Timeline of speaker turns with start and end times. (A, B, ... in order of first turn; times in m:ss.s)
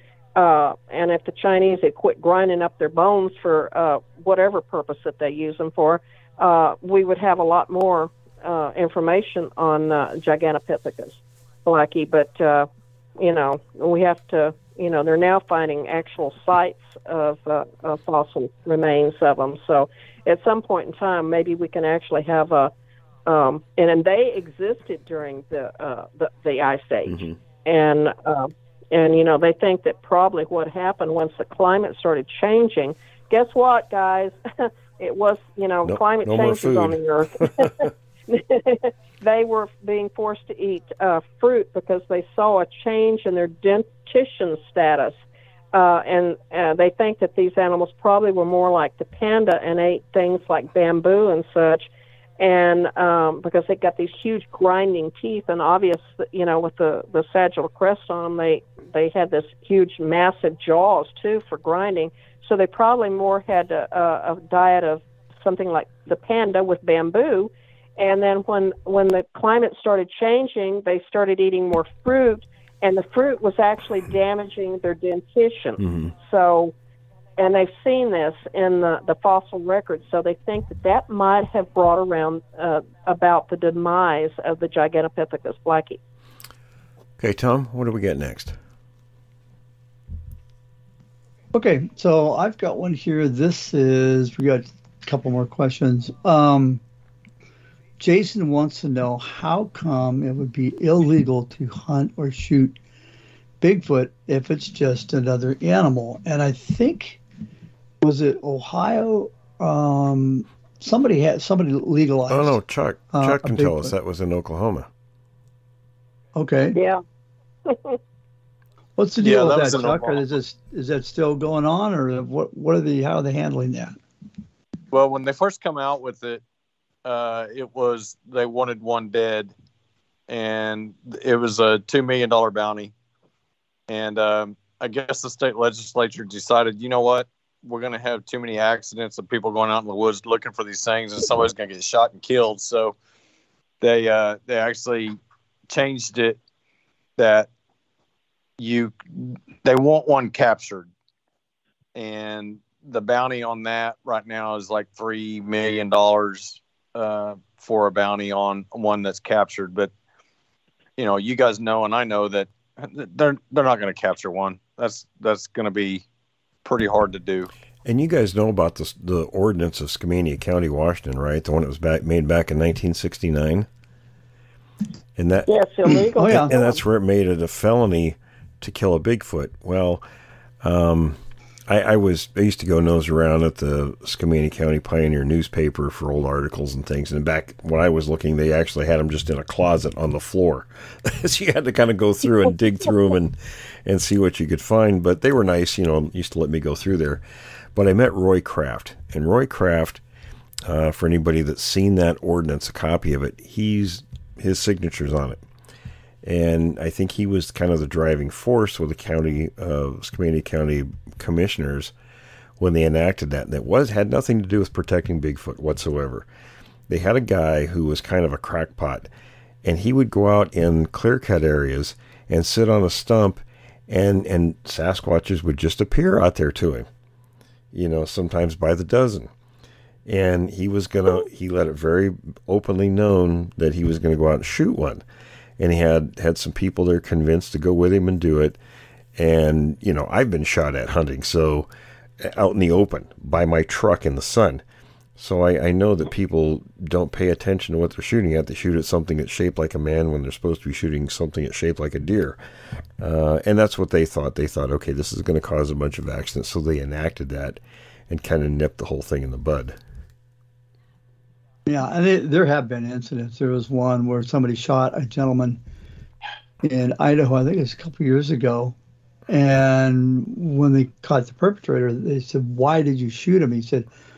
0:00.4-0:22.7 A
0:23.3-0:45.2 A
0:27.1-0:27.3 B
0:35.8-0:37.9 B
0:45.7-0:51.9 A
0:52.4-1:16.7 A
1:15.8-1:16.1 B
1:17.4-1:26.0 A
1:27.2-1:28.6 B
1:31.5-1:36.8 C
1:38.0-1:42.8 C
1:43.6-1:47.2 C
1:48.0-1:52.6 C
1:52.3-1:54.9 B
1:53.1-1:53.9 C
1:56.4-1:56.8 C
1:56.8-1:57.0 A
1:57.7-1:58.0 A
1:59.0-2:04.0 C
1:59.2-2:00.2 D
2:04.9-2:06.4 D
2:07.0-2:09.5 D
2:10.3-2:12.9 D
2:13.9-2:23.0 D
2:23.8-2:25.2 D
2:25.7-2:26.4 D
2:27.2-2:27.5 D
2:28.6-2:30.9 D
2:32.0-2:39.9 D
2:41.0-2:46.0 D
2:46.6-2:47.5 D
2:47.8-2:53.7 B
2:55.2-3:00.0 B
2:55.5-2:56.8 A
2:56.2-2:56.5 C
3:00.6-3:17.2 B
3:17.8-3:20.0 B
3:20.7-3:25.4 B
3:26.2-3:31.9 B
3:32.6-3:36.3 B
3:36.9-3:39.1 B
3:39.6-3:46.9 B
3:47.7-3:49.3 B
3:50.1-3:55.0 B
3:55.6-3:58.6 B
3:59.2-4:01.7 B
4:02.2-4:04.6 B
4:05.2-4:12.4 B
4:13.0-4:19.8 B
4:21.7-4:25.6 C
4:26.6-4:28.8 C
4:29.3-4:33.9 C